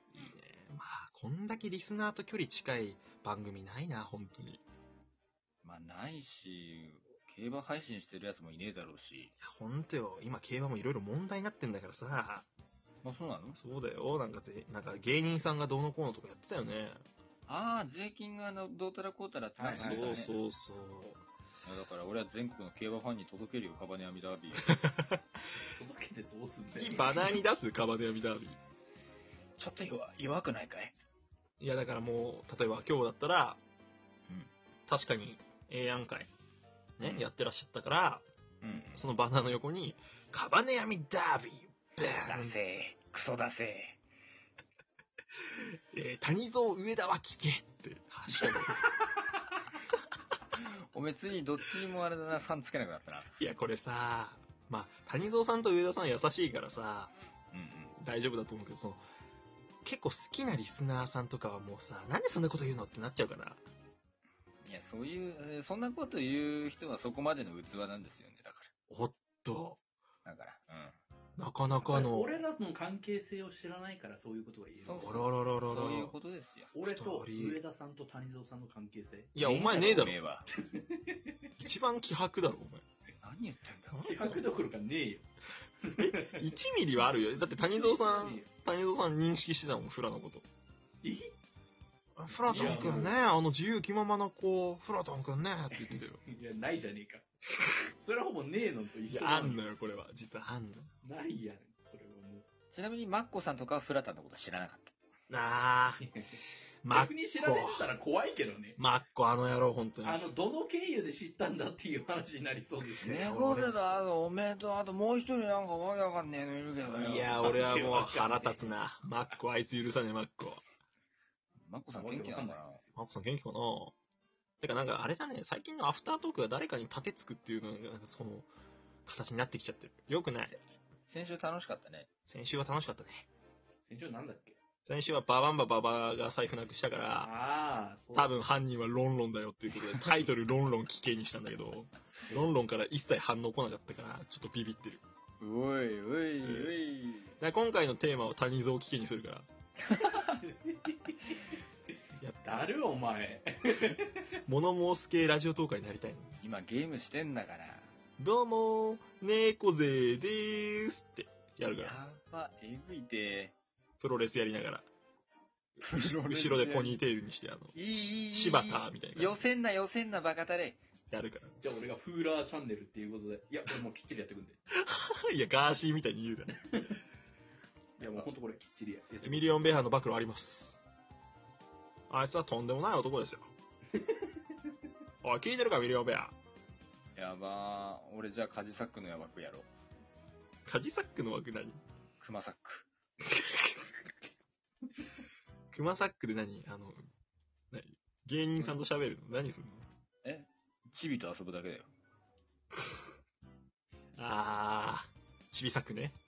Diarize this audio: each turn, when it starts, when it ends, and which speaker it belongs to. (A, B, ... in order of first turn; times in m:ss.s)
0:00.1-0:04.6 A
0:05.6-0:09.3 B
0:09.4-0:12.5 A
0:13.0-0:13.6 B
0:13.6-0:17.0 A
0:17.5-0:20.4 B
0:19.6-0:20.2 C
0:19.8-0:21.2 A
0:21.6-0:24.7 B
0:24.7-0:25.2 A
0:25.7-0:27.4 C
0:26.7-0:28.6 A
0:29.6-0:31.0 B
0:31.6-0:33.6 A
0:34.9-0:36.3 A
0:37.0-0:38.2 A
0:38.6-0:39.0 B
0:39.0-0:42.6 A
0:42.2-0:44.0 B
0:45.6-0:48.9 A
0:50.6-0:53.4 B
0:53.4-0:57.1 A
0:57.5-0:58.0 B
0:58.0-0:59.0 A
0:59.8-1:03.6 A
1:04.6-1:08.7 B
1:08.9-1:09.8 A
1:10.2-1:11.0 B
1:11.4-1:12.4 A
1:11.8-1:15.2 C
1:14.8-1:16.7 B
1:15.0-1:16.1 A
1:16.7-1:19.9 C
1:16.8-1:17.6 A
1:19.4-1:20.2 A
1:19.4-1:20.5 B
1:20.5-1:21.3 C
1:21.6-1:22.8 A
1:23.2-1:24.4 B
1:23.9-1:24.4 A
1:24.0-1:25.3 C
1:25.8-1:28.5 C
1:26.0-1:30.4 A
1:31.0-1:31.3 C
1:32.2-1:36.2 A
1:32.4-1:33.2 C
1:32.5-1:33.1 B
1:35.8-1:37.3 C
1:37.9-1:39.6 C
1:39.1-1:40.9 A
1:41.0-1:42.5 C
1:42.7-1:45.0 B
1:45.3-1:46.0 A
1:46.0-1:48.8 C
1:46.8-1:47.9 A
1:48.8-1:50.2 A
1:50.0-1:53.2 C
1:53.0-1:57.6 B
1:53.1-1:53.8 A
1:57.0-1:58.7 C
1:57.0-2:00.6 A
2:01.6-2:02.8 B
2:01.9-2:03.0 C
2:03.0-2:04.0 A
2:04.6-2:08.5 A
2:09.0-2:10.5 A
2:11.1-2:12.1 B
2:12.3-2:13.3 A
2:13.9-2:14.6 C
2:14.9-2:17.3 A
2:17.2-2:18.4 C
2:18.1-2:25.0 A
2:22.1-2:22.5 C
2:25.4-2:27.4 B
2:26.4-2:26.7 A
2:27.4-2:29.5 A
2:30.1-2:31.4 C
2:32.2-2:32.7 A
2:32.4-2:34.3 C
2:34.5-2:36.4 A
2:36.4-2:37.9 B
2:38.2-2:42.0 A
2:41.7-2:43.5 B
2:44.0-2:44.9 A
2:45.8-2:49.4 A
2:45.8-2:47.0 B
2:47.8-2:50.8 B
2:51.1-2:51.6 A
2:51.6-2:54.6 C
2:54.7-2:56.6 A
2:58.0-2:59.7 C
2:59.2-3:00.8 A
3:02.1-3:03.5 A
3:04.0-3:04.2 C
3:05.2-3:06.4 A
3:07.2-3:09.7 B
3:10.7-3:11.8 A
3:12.2-3:12.9 B
3:15.7-3:17.0 A
3:17.7-3:19.9 A
3:20.2-3:21.9 B
3:24.2-3:26.2 A